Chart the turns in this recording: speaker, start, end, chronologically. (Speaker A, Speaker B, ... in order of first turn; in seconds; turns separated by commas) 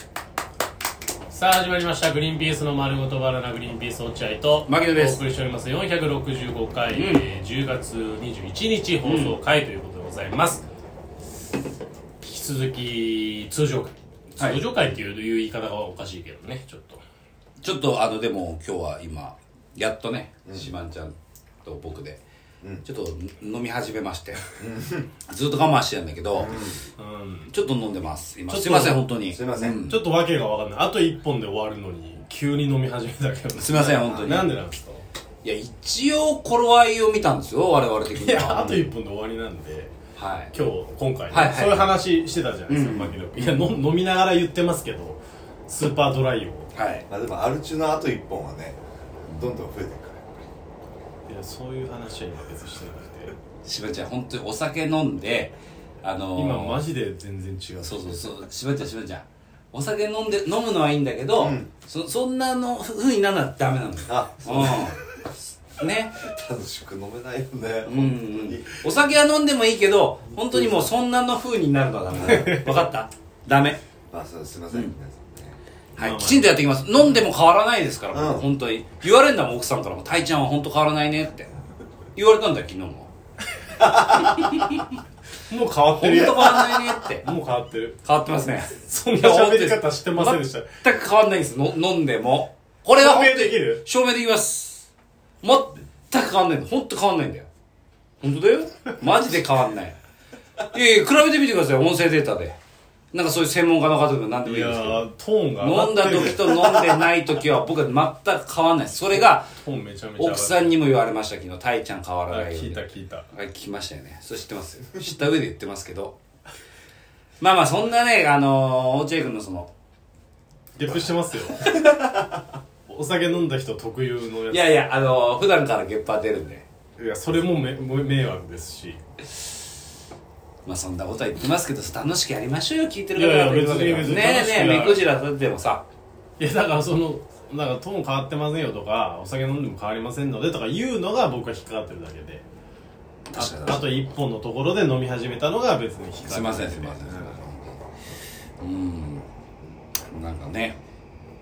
Speaker A: 1.3-10.7, Speaker B: 4.7-5.2, Speaker B: 6.9-7.3, Speaker B: 9.0-9.4, Speaker A: 12.2-17.0, Speaker B: 14.4-14.7, Speaker B: 17.6-22.2, Speaker C: 20.5-20.7, Speaker B: 22.8-24.4, Speaker C: 24.6-25.1, Speaker B: 25.3-26.6, Speaker C: 26.3-26.8, Speaker A: 27.0-27.5, Speaker B: 27.5-30.1, Speaker A: 28.5-29.1, Speaker C: 29.3-29.8, Speaker A: 29.8-35.0, Speaker B: 33.5-34.5, Speaker B: 35.4-38.8, Speaker A: 38.1-40.0, Speaker C: 38.6-38.9, Speaker B: 40.2-40.5, Speaker A: 40.5-46.7, Speaker B: 41.3-42.0, Speaker B: 42.7-43.5, Speaker B: 46.8-47.1, Speaker C: 47.1-50.3, Speaker A: 51.3-53.4, Speaker B: 53.6-56.8, Speaker A: 56.3-58.4, Speaker B: 57.8-65.0, Speaker C: 61.4-61.7, Speaker C: 64.1-65.2, Speaker B: 65.8-66.1, Speaker C: 66.2-68.8, Speaker B: 67.8-73.8, Speaker A: 72.3-72.7, Speaker C: 74.1-75.6, Speaker B: 76.0-81.5, Speaker A: 76.0-76.5, Speaker C: 78.1-78.5, Speaker B: 82.2-83.1, Speaker B: 84.2-84.8, Speaker A: 85.5-88.0, Speaker B: 85.9-87.3, Speaker B: 88.0-94.9, Speaker A: 88.8-90.7, Speaker A: 93.0-93.8, Speaker B: 95.4-97.5, Speaker B: 98.2-100.0, Speaker B: 100.7-102.6, Speaker B: 103.1-105.1, Speaker A: 104.5-106.8, Speaker B: 105.6-109.5, Speaker A: 109.1-110.7, Speaker B: 110.2-116.2, Speaker A: 112.3-113.3, Speaker B: 117.4-119.7, Speaker A: 120.8-121.8, Speaker B: 121.7-122.1, Speaker A: 122.9-124.8, Speaker B: 124.5-126.7, Speaker A: 127.0-129.0, Speaker B: 130.7-135.8, Speaker A: 133.2-135.0, Speaker A: 136.4-142.4, Speaker B: 143.3-144.0, Speaker A: 143.4-147.2, Speaker B: 146.2-147.8, Speaker B: 148.6-149.2, Speaker B: 150.1-150.8